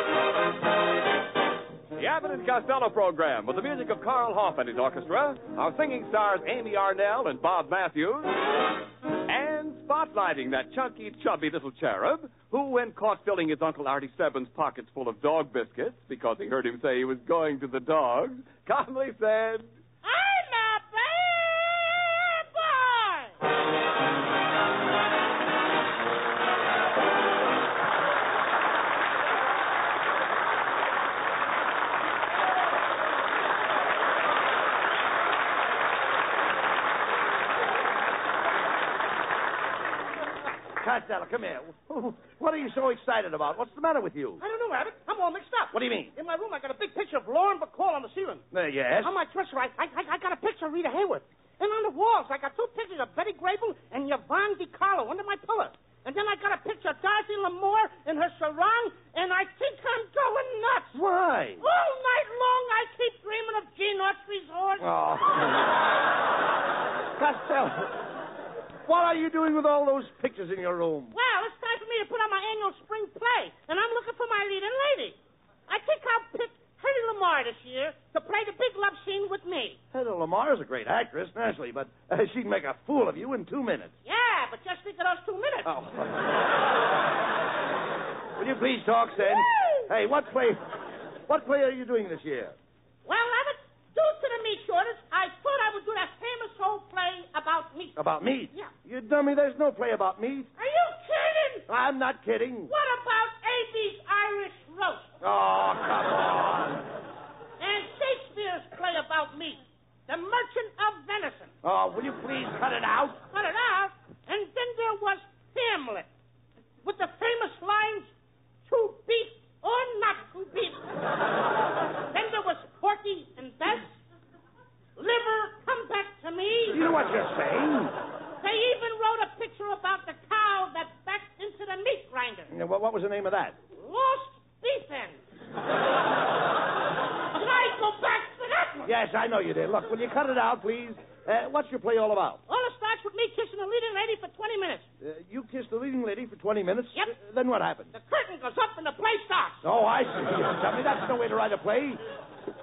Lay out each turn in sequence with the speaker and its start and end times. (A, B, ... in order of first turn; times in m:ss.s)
0:01.9-0:08.3 A
0:09.3-0:19.7 A
0:20.0-0:23.4 B
0:40.8-0:44.4 C
0:44.4-0:48.4 B
0:45.7-0:46.1 C
0:48.5-0:49.1 C
0:49.0-1:01.0 B
1:00.9-1:01.6 C
1:01.6-1:04.9 B
1:04.8-1:05.7 C
1:07.2-1:07.9 C
1:08.9-1:11.1 C
1:11.1-1:19.8 B
1:19.9-1:23.9 C
1:24.0-1:25.7 B
1:25.7-1:26.4 C
1:28.4-1:30.6 C
1:29.3-1:29.7 B
1:31.3-1:32.5 C
1:33.0-1:38.0 B
1:38.0-1:40.5 C
1:40.6-1:41.7 B
1:41.7-1:42.7 C
1:42.7-1:45.1 B
1:45.2-1:46.9 C
1:47.6-1:51.5 B
1:51.6-1:53.2 C
1:53.3-1:56.1 B
1:56.8-1:58.1 B
1:58.7-2:00.9 B
2:02.1-2:04.0 B
2:05.0-2:06.9 B
2:06.7-2:07.9 C
2:08.4-2:12.5 B
2:12.5-2:13.6 C
2:13.7-2:15.2 B
2:17.3-2:18.9 B
2:18.8-2:22.4 C
2:22.5-2:24.9 B
2:25.0-2:27.9 C
2:27.9-2:29.6 B
2:29.6-2:32.0 C